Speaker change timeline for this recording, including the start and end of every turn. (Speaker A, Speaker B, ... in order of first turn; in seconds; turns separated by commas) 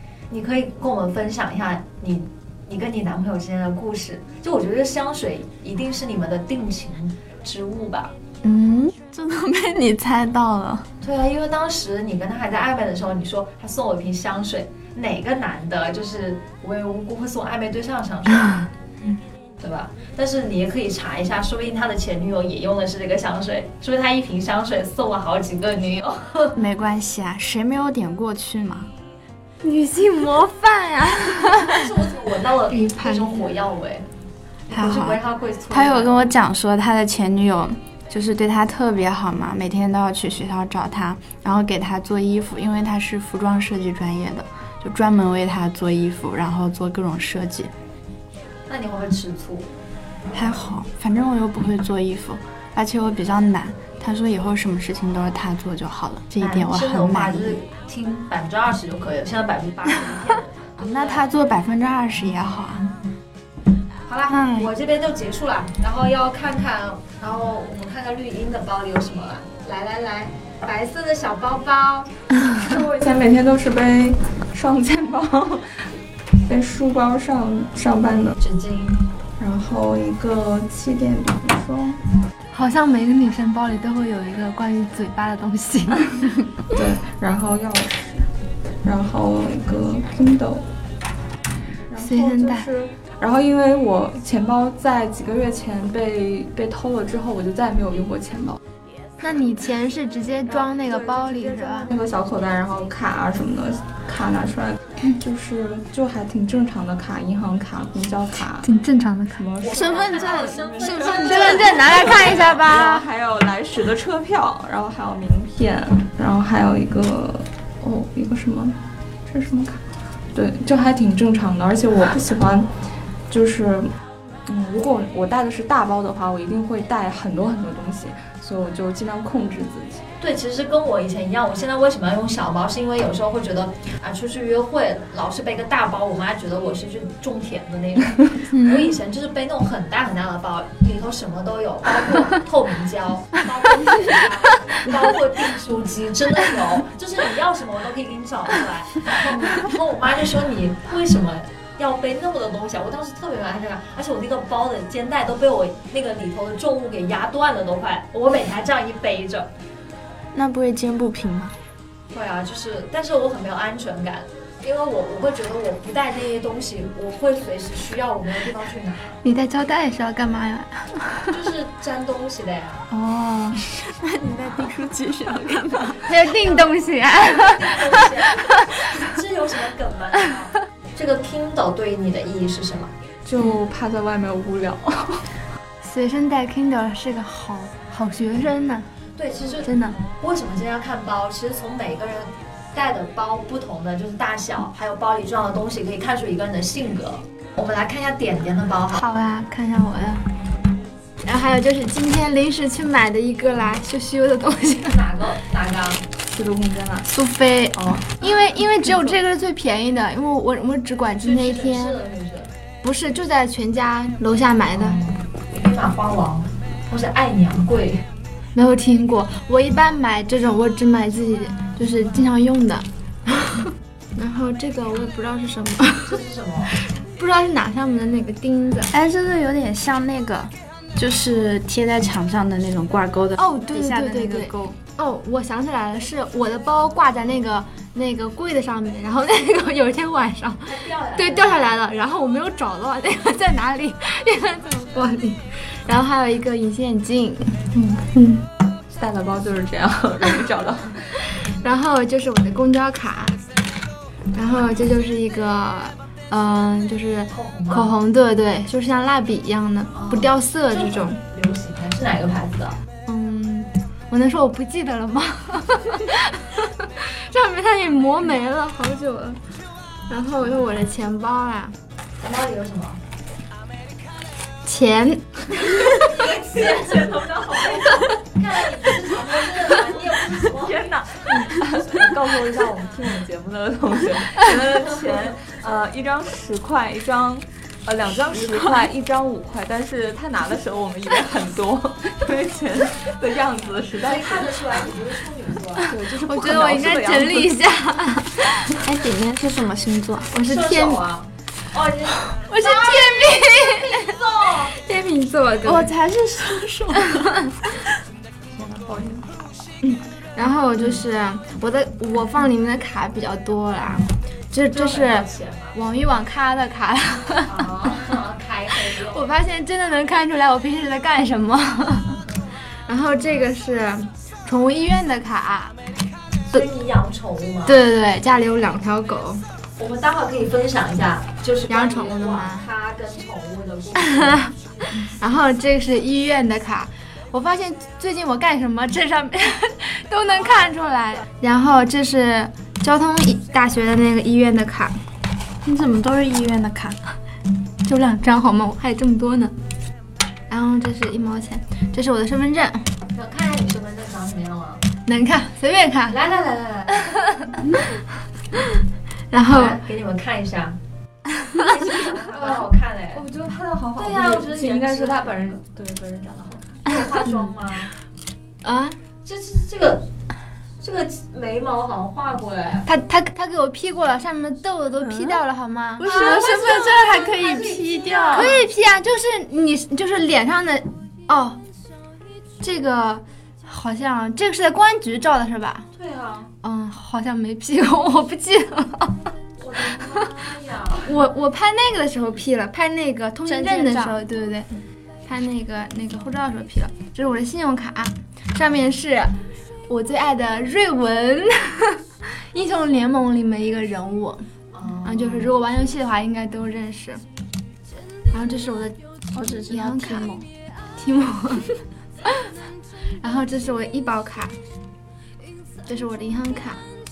Speaker A: 0.3-8.1, Speaker B: 8.4-10.9, Speaker A: 11.0-18.7, Speaker A: 19.6-26.6, Speaker B: 26.6-28.9, Speaker C: 29.6-31.9, Speaker A: 31.6-34.1, Speaker C: 32.7-33.5, Speaker A: 34.7-36.3, Speaker B: 34.7-47.7, Speaker A: 48.7-49.7, Speaker B: 50.3-57.6, Speaker A: 56.4-61.3, Speaker B: 60.8-62.9, Speaker A: 64.1-72.1, Speaker B: 64.3-64.7, Speaker D: 72.5-75.9, Speaker D: 76.5-78.4, Speaker A: 78.4-79.0, Speaker D: 79.4-82.0, Speaker C: 82.5-86.4, Speaker D: 86.7-88.3, Speaker D: 88.8-90.7, Speaker D: 91.9-98.6, Speaker C: 92.0-92.7, Speaker C: 99.2-101.9, Speaker D: 100.5-108.7, Speaker C: 108.6-113.1, Speaker D: 109.4-119.8, Speaker A: 109.6-112.5, Speaker D: 120.3-122.7, Speaker D: 123.3-123.9, Speaker D: 124.5-130.0, Speaker A: 130.2-159.5, Speaker C: 138.5-138.9, Speaker B: 160.3-161.6, Speaker A: 162.1-169.1, Speaker C: 169.2-171.3, Speaker A: 171.3-172.9, Speaker B: 173.4-176.3, Speaker C: 176.1-178.8, Speaker A: 177.1-182.9, Speaker D: 183.2-185.3, Speaker C: 185.8-188.9, Speaker A: 189.2-199.0, Speaker C: 189.4-190.0, Speaker C: 198.9-200.3, Speaker C: 201.2-205.0, Speaker A: 204.9-206.0, Speaker D: 206.2-207.1, Speaker C: 207.1-212.0, Speaker A: 211.2-212.5, Speaker C: 212.8-215.0, Speaker A: 214.8-218.1, Speaker C: 218.5-226.2, Speaker A: 226.1-226.8, Speaker C: 227.0-228.9, Speaker B: 228.9-234.8, Speaker C: 233.4-248.4, Speaker A: 240.6-241.7, Speaker D: 248.9-251.0, Speaker C: 251.3-253.4, Speaker C: 254.3-261.2, Speaker A: 257.3-257.9, Speaker A: 259.9-262.8, Speaker C: 263.1-269.4, Speaker C: 270.1-271.8, Speaker A: 272.2-273.0, Speaker C: 274.6-276.0, Speaker A: 275.8-280.8, Speaker D: 280.5-294.6, Speaker A: 294.0-295.9, Speaker D: 295.9-297.6, Speaker C: 296.0-299.4, Speaker B: 298.9-300.3, Speaker C: 300.3-301.0, Speaker A: 300.4-304.8, Speaker C: 302.5-305.9, Speaker B: 305.6-307.8, Speaker D: 308.6-309.2, Speaker C: 309.8-317.7, Speaker A: 314.7-315.8, Speaker A: 317.5-319.3, Speaker C: 318.9-322.2, Speaker C: 322.9-325.8, Speaker A: 326.5-327.8, Speaker C: 327.7-329.4, Speaker A: 329.8-334.4, Speaker C: 331.7-332.7, Speaker C: 334.0-345.0, Speaker A: 340.3-341.2, Speaker B: 345.6-347.0, Speaker C: 347.8-349.5, Speaker C: 350.5-352.9, Speaker A: 353.1-354.8, Speaker C: 355.1-356.2, Speaker A: 356.1-357.3, Speaker C: 357.4-357.7, Speaker C: 359.3-359.8, Speaker A: 359.5-360.8, Speaker A: 361.5-363.2, Speaker D: 362.4-366.8, Speaker A: 364.0-365.6, Speaker A: 366.8-367.9, Speaker C: 368.6-369.0, Speaker A: 369.2-370.1, Speaker A: 370.8-372.9, Speaker C: 372.9-377.0, Speaker D: 375.0-375.4, Speaker B: 376.0-378.6, Speaker A: 376.0-378.6, Speaker C: 378.3-381.6, Speaker C: 382.6-385.9, Speaker A: 385.9-386.5, Speaker C: 386.6-389.3, Speaker A: 389.6-391.2, Speaker C: 389.9-390.3, Speaker C: 391.1-394.7, Speaker B: 393.4-394.2, Speaker C: 395.2-399.4, Speaker C: 399.9-404.4, Speaker A: 404.7-405.6, Speaker C: 405.0-407.2, Speaker C: 408.3-409.0, Speaker B: 409.3-410.5, Speaker C: 409.6-410.3, Speaker C: 411.0-412.5, Speaker C: 413.2-414.6, Speaker C: 415.9-416.8